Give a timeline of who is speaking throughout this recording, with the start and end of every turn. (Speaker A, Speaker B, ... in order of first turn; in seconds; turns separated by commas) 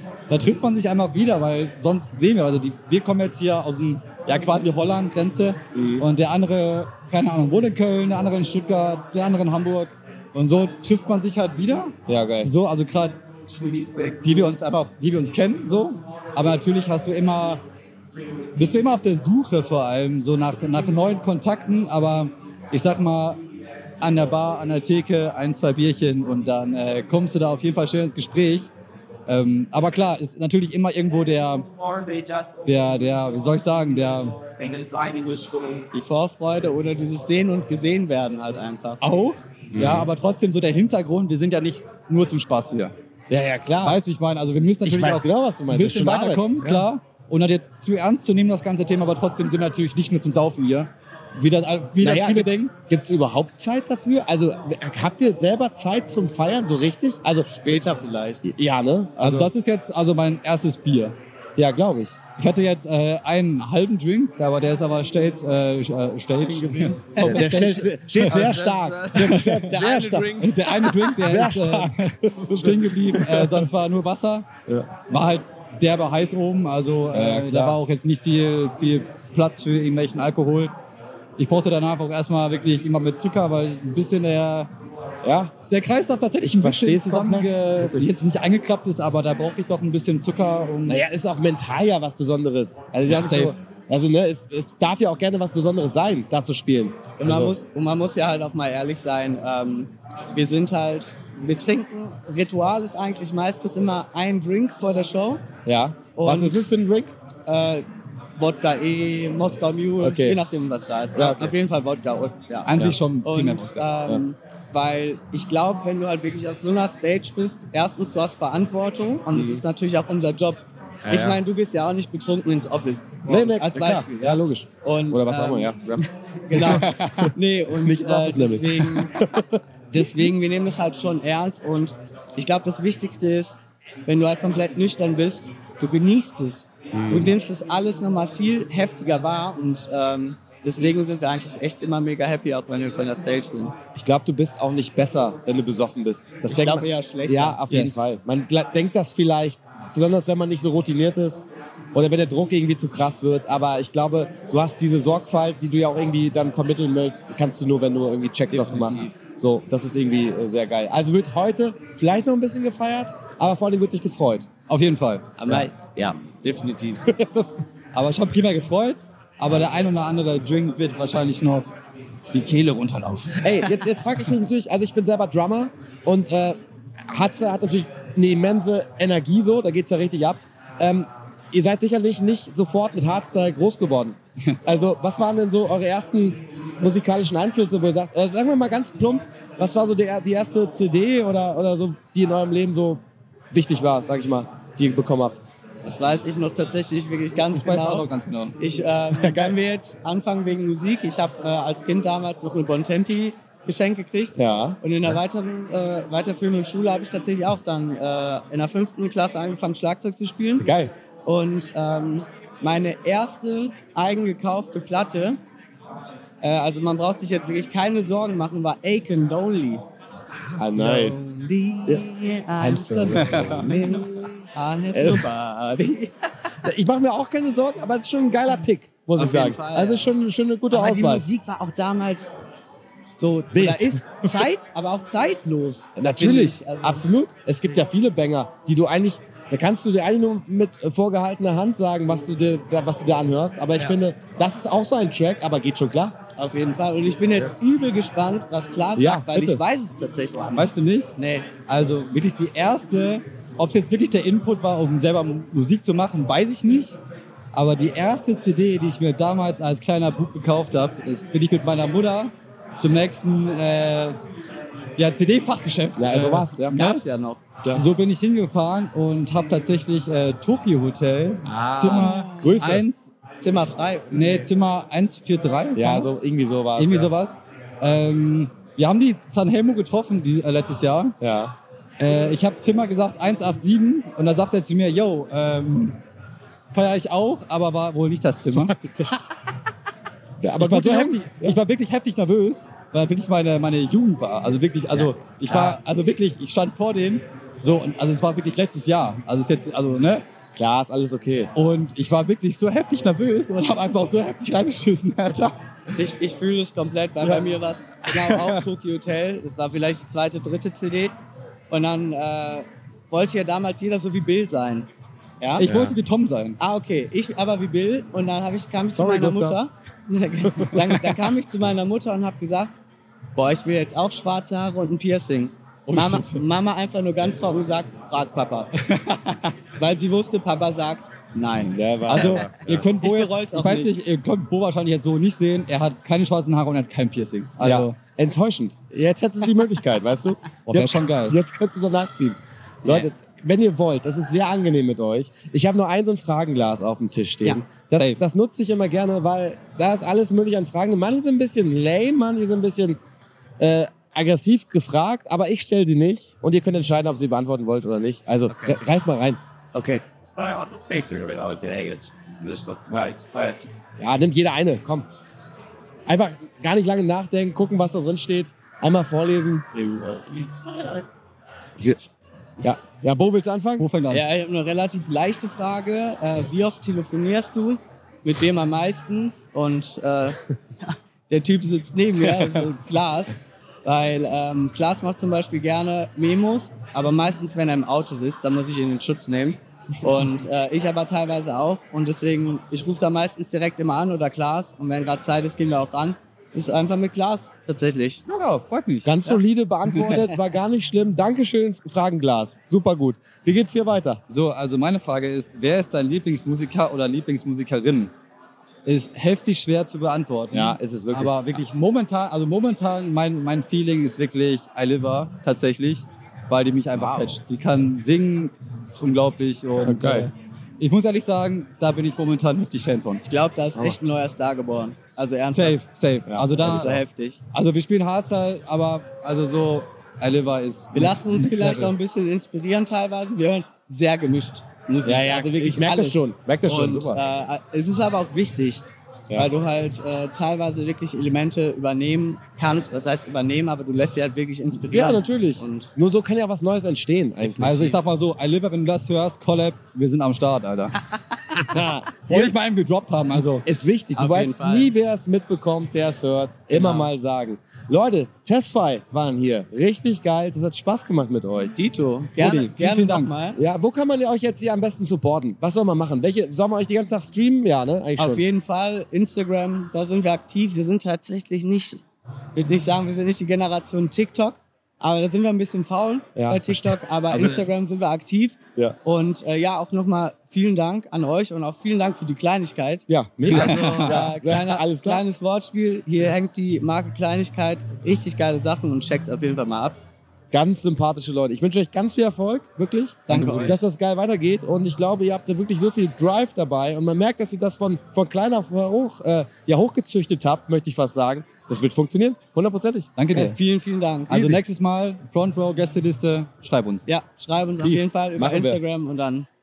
Speaker A: 0.3-13.2, Speaker B: 5.7-6.1, Speaker B: 12.1-12.5, Speaker A: 13.7-17.6, Speaker A: 18.5-23.4, Speaker A: 24.0-28.7, Speaker A: 29.3-31.6, Speaker C: 31.8-32.5, Speaker A: 32.6-34.4, Speaker C: 34.6-35.8, Speaker D: 35.9-39.0, Speaker A: 39.0-42.9, Speaker B: 39.8-40.1, Speaker B: 43.3-44.0, Speaker A: 43.8-52.7, Speaker B: 44.8-46.9, Speaker B: 52.0-57.8, Speaker D: 57.5-58.4, Speaker B: 58.4-59.5, Speaker A: 59.2-61.1, Speaker B: 61.5-62.1, Speaker A: 62.4-68.5, Speaker D: 66.3-71.2, Speaker B: 67.2-70.3, Speaker A: 69.1-69.8, Speaker A: 70.4-74.5, Speaker B: 71.0-73.7, Speaker A: 75.1-80.7, Speaker B: 77.1-77.8, Speaker A: 81.4-84.7, Speaker B: 85.2-85.5, Speaker A: 85.7-91.0, Speaker B: 86.4-88.1, Speaker B: 90.8-97.5, Speaker A: 93.0-93.5, Speaker D: 97.2-105.4, Speaker B: 105.7-107.1, Speaker D: 106.1-106.7, Speaker D: 107.5-107.8, Speaker D: 108.4-129.1, Speaker B: 110.0-110.4, Speaker B: 111.1-111.5, Speaker A: 112.7-113.9, Speaker B: 119.3-119.6, Speaker B: 121.0-121.4, Speaker B: 123.3-130.2, Speaker A: 126.6-127.3, Speaker D: 129.9-143.7, Speaker B: 136.9-137.3, Speaker B: 143.9-164.5, Speaker D: 146.5-147.6, Speaker A: 147.7-148.0, Speaker A: 158.5-159.1, Speaker A: 164.7-165.2, Speaker D: 165.4-167.0, Speaker B: 167.1-167.6, Speaker A: 167.9-171.7, Speaker A: 172.3-173.7, Speaker B: 173.4-193.0, Speaker B: 193.5-195.4, Speaker D: 195.8-198.1, Speaker A: 197.5-198.6, Speaker D: 198.6-210.7, Speaker B: 199.1-199.6, Speaker B: 204.3-205.1, Speaker B: 210.6-210.9, Speaker D: 211.2-215.4, Speaker D: 216.4-219.8, Speaker B: 220.5-221.3, Speaker D: 220.7-226.5, Speaker B: 222.6-224.1, Speaker A: 223.1-224.0, Speaker B: 224.9-225.3, Speaker B: 226.6-231.3, Speaker D: 229.2-230.1, Speaker D: 230.7-232.3, Speaker D: 233.2-237.0, Speaker B: 233.5-234.4, Speaker B: 236.0-246.2, Speaker D: 246.3-251.5, Speaker B: 248.9-249.6, Speaker A: 250.5-251.1, Speaker A: 251.7-257.0, Speaker A: 257.5-264.2, Speaker A: 265.0-267.0, Speaker B: 265.9-266.8, Speaker D: 266.7-267.4, Speaker B: 267.6-267.9, Speaker A: 267.7-273.1, Speaker B: 271.4-272.8, Speaker D: 271.9-272.8, Speaker D: 273.4-274.5, Speaker A: 274.1-276.1, Speaker B: 275.7-277.1, Speaker A: 276.8-281.1, Speaker B: 281.2-281.5, Speaker A: 282.0-286.0, Speaker A: 286.7-288.8, Speaker B: 288.6-289.0, Speaker B: 290.4-291.6, Speaker A: 290.6-300.2, Speaker B: 294.9-295.8, Speaker B: 300.5-301.5, Speaker A: 301.5-305.5, Speaker D: 305.9-311.1, Speaker A: 308.1-308.6, Speaker D: 311.7-315.7, Speaker A: 315.6-316.6, Speaker B: 315.6-316.0, Speaker D: 316.6-322.7, Speaker B: 318.9-319.6, Speaker B: 320.4-321.0, Speaker D: 323.3-328.7, Speaker A: 325.9-326.4, Speaker A: 328.8-329.5, Speaker D: 329.8-332.4, Speaker B: 331.7-332.9, Speaker A: 332.1-338.0, Speaker D: 333.0-333.9, Speaker B: 337.6-353.0, Speaker A: 340.7-341.4, Speaker A: 347.9-348.2, Speaker B: 353.6-359.4, Speaker D: 358.5-358.8, Speaker C: 359.9-363.7, Speaker B: 364.0-365.1, Speaker B: 366.1-369.8, Speaker C: 369.8-371.0, Speaker B: 372.6-373.9, Speaker A: 373.8-374.2, Speaker D: 374.1-380.4, Speaker D: 381.3-398.2, Speaker A: 398.3-400.2, Speaker B: 399.0-404.2, Speaker A: 404.3-408.1, Speaker A: 408.8-423.2, Speaker B: 410.5-411.4, Speaker B: 416.9-417.4, Speaker B: 419.8-420.3, Speaker D: 423.2-425.8, Speaker A: 425.5-427.0, Speaker B: 426.2-427.0, Speaker D: 426.6-427.4, Speaker A: 427.5-431.9, Speaker D: 430.9-445.9, Speaker B: 435.0-437.2, Speaker B: 444.7-448.0, Speaker A: 447.4-451.0, Speaker B: 451.6-452.6, Speaker A: 451.7-453.6, Speaker B: 453.6-461.8, Speaker D: 454.1-454.9, Speaker D: 456.7-457.1, Speaker D: 461.8-463.6, Speaker A: 462.4-463.3, Speaker B: 463.5-468.4, Speaker D: 468.2-472.0, Speaker D: 472.5-490.0, Speaker B: 476.4-476.9, Speaker A: 477.3-477.6, Speaker B: 483.1-485.2, Speaker A: 483.5-484.3, Speaker B: 490.5-503.3, Speaker D: 493.3-493.8, Speaker A: 493.3-493.8, Speaker A: 503.2-503.6, Speaker D: 503.3-504.6, Speaker A: 504.3-507.1, Speaker D: 507.1-509.5, Speaker B: 507.8-508.8